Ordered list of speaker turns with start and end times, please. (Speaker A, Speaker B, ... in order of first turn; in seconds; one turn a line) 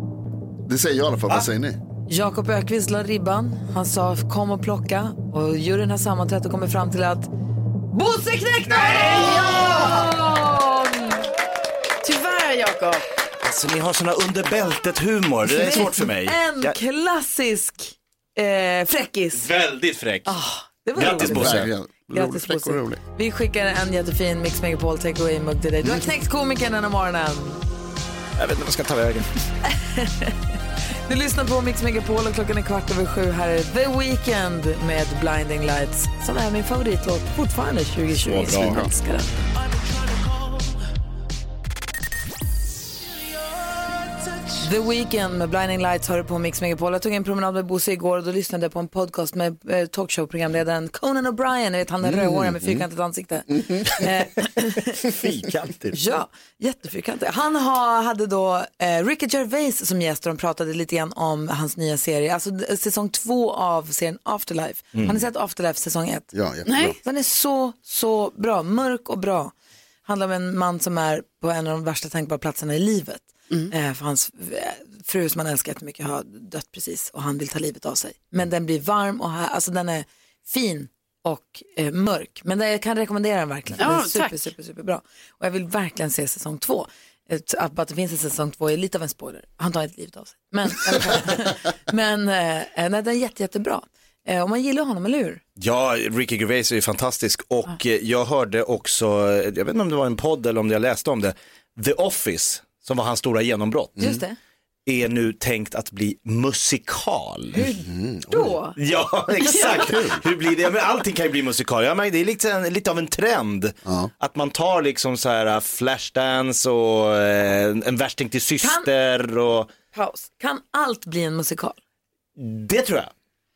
Speaker A: 0.7-1.8
Speaker B: 2.1-7.3
Speaker B: 7.9-11.2
Speaker C: 8.7-10.1
Speaker D: 12.0-13.0
Speaker C: 13.4-16.8
Speaker B: 15.5-19.4
Speaker C: 19.3-20.3
Speaker B: 20.2-27.6
Speaker C: 20.9-21.7
Speaker A: 21.1-23.0
Speaker C: 28.4-29.3
Speaker B: 29.8-30.3
Speaker B: 31.1-39.3
Speaker C: 38.2-38.8
Speaker A: 38.6-38.9
Speaker B: 44.6-55.0
Speaker A: 52.0-52.8
Speaker A: 53.6-53.9
Speaker C: 55.0-55.9
Speaker B: 55.9-66.3
Speaker C: 64.9-65.2
Speaker A: 66.3-67.0
Speaker D: 66.7-67.0
Speaker B: 67.0-69.5
Speaker B: 70.0-95.4
Speaker D: 83.8-84.4
Speaker C: 95.6-104.2
Speaker B: 104.0-104.3
Speaker C: 104.8-107.6
Speaker B: 107.5-108.8
Speaker A: 107.6-108.6
Speaker C: 108.8-119.7
Speaker A: 109.5-110.2
Speaker A: 113.8-114.1
Speaker B: 118.6-118.9
Speaker B: 119.9-121.8
Speaker C: 122.4-123.1